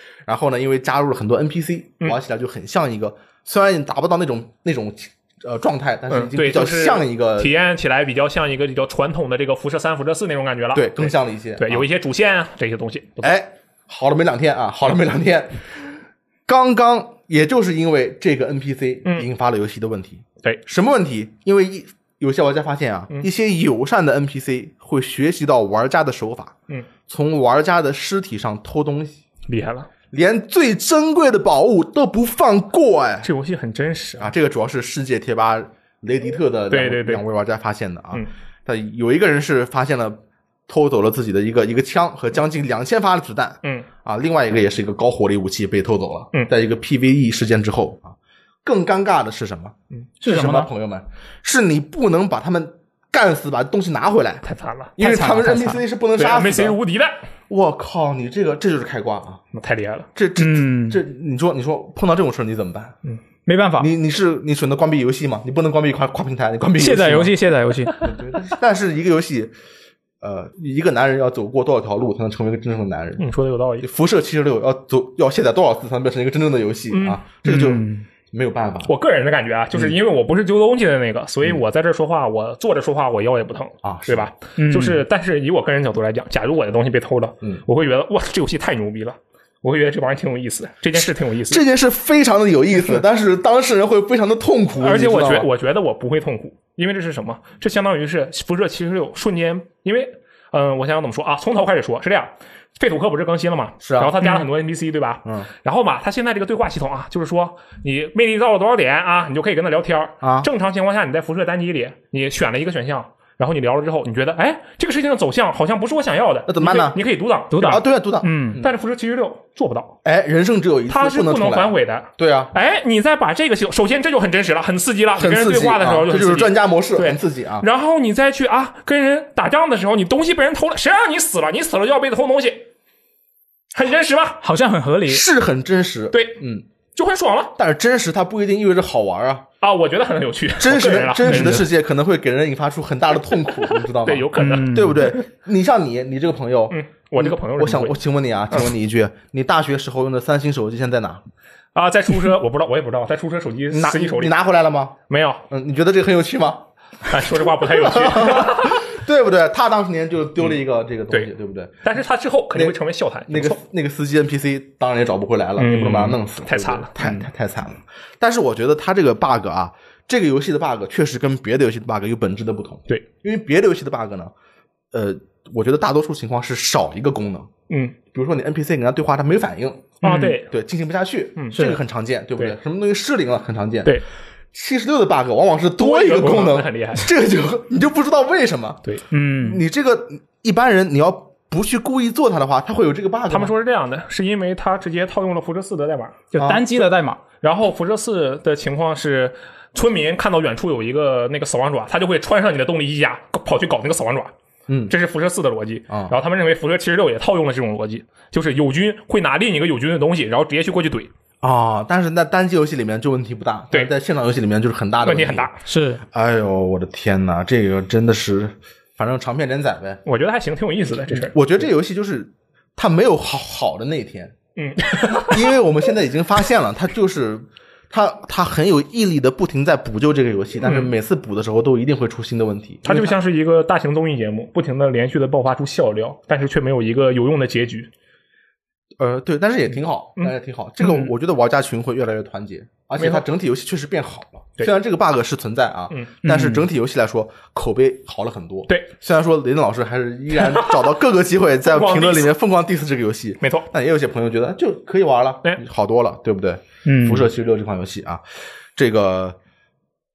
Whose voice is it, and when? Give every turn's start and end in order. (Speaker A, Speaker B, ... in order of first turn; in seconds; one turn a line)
Speaker A: 0.3-7.5
Speaker B: 6.1-13.3
Speaker A: 10.7-11.9
Speaker A: 13.2-26.5
Speaker A: 27.1-29.2
Speaker B: 29.5-29.9
Speaker A: 30.1-33.3
Speaker B: 33.2-34.3
Speaker A: 34.2-54.4
Speaker B: 36.7-37.2
Speaker C: 50.2-50.7
Speaker B: 54.4-55.0
Speaker A: 55.0-56.8
Speaker C: 55.0-55.8
Speaker B: 56.1-57.2
Speaker A: 57.5-59.4
Speaker B: 59.5-60.1
Speaker A: 60.1-63.0
Speaker C: 60.4-61.0
Speaker C: 63.5-63.9
Speaker A: 63.8-67.4
Speaker C: 66.8-68.1
Speaker A: 68.0-69.5
Speaker A: 70.2-73.3
Speaker B: 73.2-73.8
Speaker A: 73.8-78.9
Speaker B: 76.9-77.2
Speaker C: 77.4-78.0
Speaker B: 78.8-91.6
Speaker A: 83.8-84.3
Speaker C: 84.6-85.0
Speaker A: 91.0-95.5
Speaker B: 94.8-117.8
Speaker A: 103.8-104.2
Speaker A: 110.2-110.5
Speaker A: 116.5-117.0
Speaker C: 117.5-118.6
Speaker A: 117.6-118.7
Speaker B: 118.6-120.0
Speaker A: 120.0-122.5
Speaker B: 120.9-132.7
Speaker A: 125.2-127.7
Speaker B: 133.7-134.4
Speaker C: 134.4-135.2
Speaker A: 135.1-136.6
Speaker B: 136.1-136.4
Speaker B: 136.9-137.5
Speaker A: 137.6-139.4
Speaker B: 139.6-141.7
Speaker A: 140.6-151.2
Speaker C: 141.2-141.6
Speaker B: 143.9-145.2
Speaker C: 144.3-145.1
Speaker B: 146.7-148.0
Speaker B: 151.7-154.3
Speaker A: 153.7-154.9
Speaker B: 155.1-155.4
Speaker A: 155.5-156.7
Speaker B: 157.1-158.9
Speaker A: 157.6-161.8
Speaker B: 161.8-163.6
Speaker A: 163.3-174.3
Speaker B: 165.6-167.2
Speaker A: 174.9-177.5
Speaker B: 177.7-178.0
Speaker A: 178.1-184.0
Speaker C: 180.0-180.4
Speaker B: 180.0-180.5
Speaker B: 181.4-181.7
Speaker C: 181.5-181.8
Speaker A: 184.5-188.8
Speaker B: 185.8-187.1
Speaker C: 189.1-189.6
Speaker A: 189.4-193.5
Speaker B: 193.3-196.3
Speaker C: 196.3-197.2
Speaker A: 196.3-196.7
Speaker B: 197.4-204.3
Speaker A: 204.7-204.9
Speaker B: 204.9-211.1
Speaker A: 205.9-206.2
Speaker A: 211.4-215.5
Speaker B: 215.0-215.6
Speaker C: 215.6-216.0
Speaker A: 216.1-220.0
Speaker B: 220.1-221.3
Speaker A: 221.1-224.3
Speaker B: 224.6-225.5
Speaker A: 225.1-233.2
Speaker B: 230.6-230.9
Speaker B: 232.8-237.9
Speaker A: 239.0-258.2
Speaker B: 243.0-243.2
Speaker C: 246.2-246.7
Speaker B: 250.4-250.9
Speaker B: 251.6-252.3
Speaker B: 253.4-253.7
Speaker C: 256.8-257.3
Speaker A: 258.8-259.4